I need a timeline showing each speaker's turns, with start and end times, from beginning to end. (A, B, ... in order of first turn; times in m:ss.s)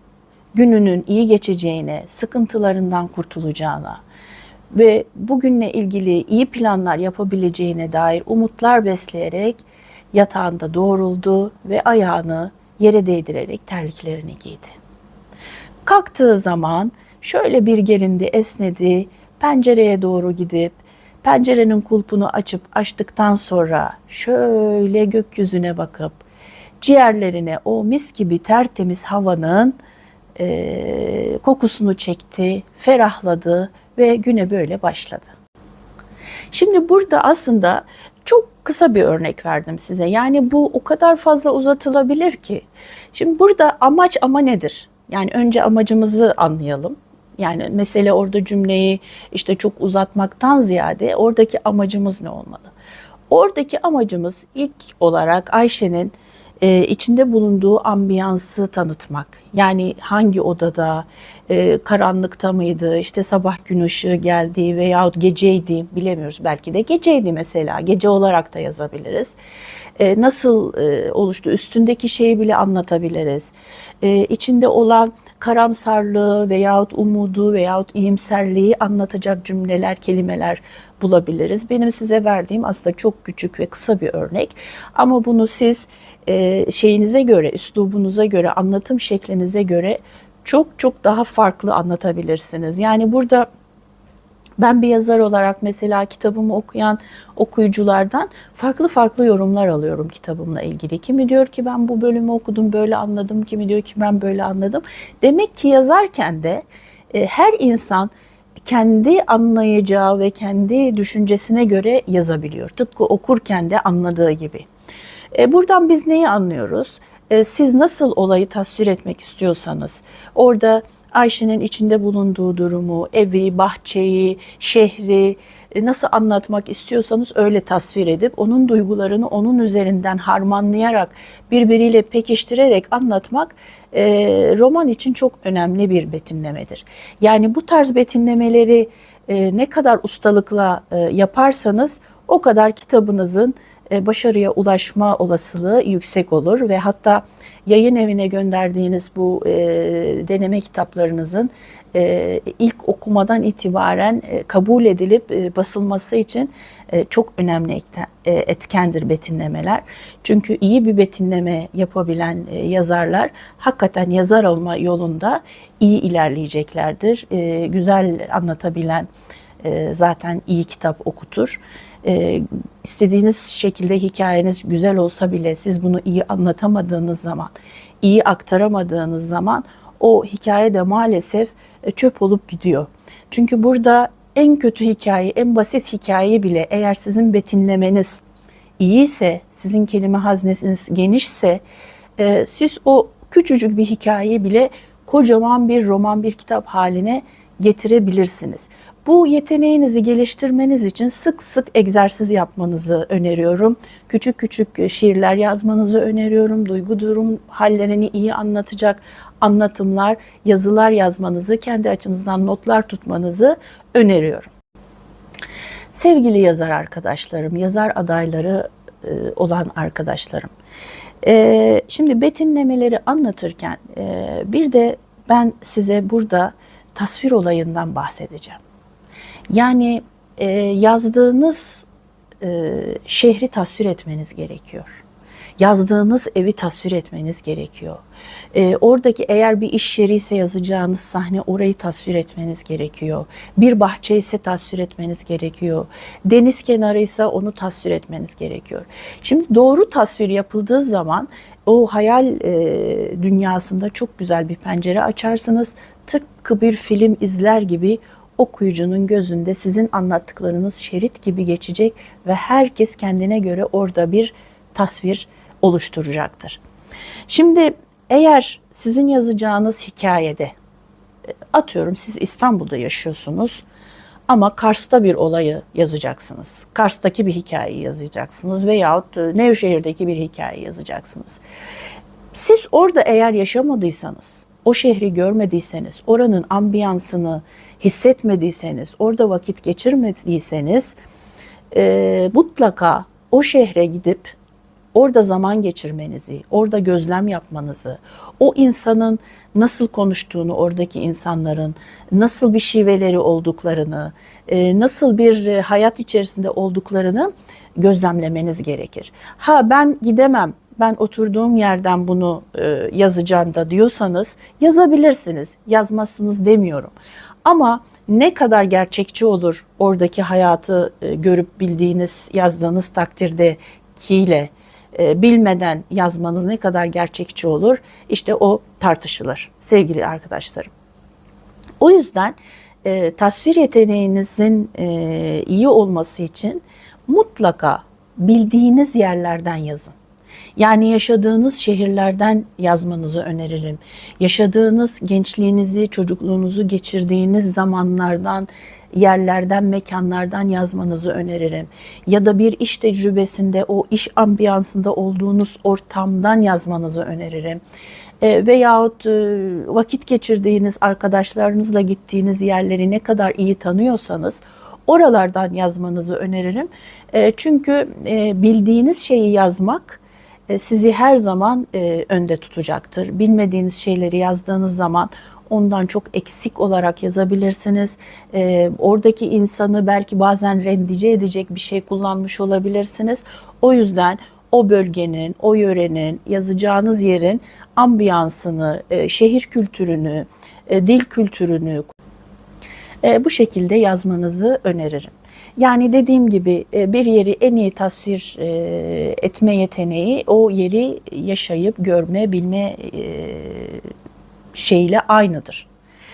0:00.5-0:04.0 A
0:04.7-0:14.7 A
0:15.8-0:26.2 A
0:26.8-0:29.8 A
0:30.4-0:35.3 A
0:36.5-0:52.7 A
0:53.3-1:09.4 A
1:10.0-1:33.5 A
1:34.6-1:48.1 A
1:48.6-1:54.6 A
1:55.3-2:49.1 A
2:49.6-3:08.2 A
3:08.8-3:11.6 A
3:12.2-3:34.5 A
3:35.9-3:40.5 A
3:41.2-3:48.6 A
3:49.5-3:51.8 A
3:52.4-3:55.0 A
3:55.6-3:58.0 A
3:58.5-4:26.6 A
4:27.3-4:30.5 A
4:31.5-4:33.6 A
4:34.3-4:41.4 A
4:42.3-4:51.0 A
4:51.7-4:54.3 A
4:54.9-5:16.9 A
5:17.4-5:30.7 A
5:31.8-5:39.9 A
5:40.6-5:57.6 A
5:58.2-6:31.9 A
6:33.0-6:43.9 A
6:44.5-6:45.7 A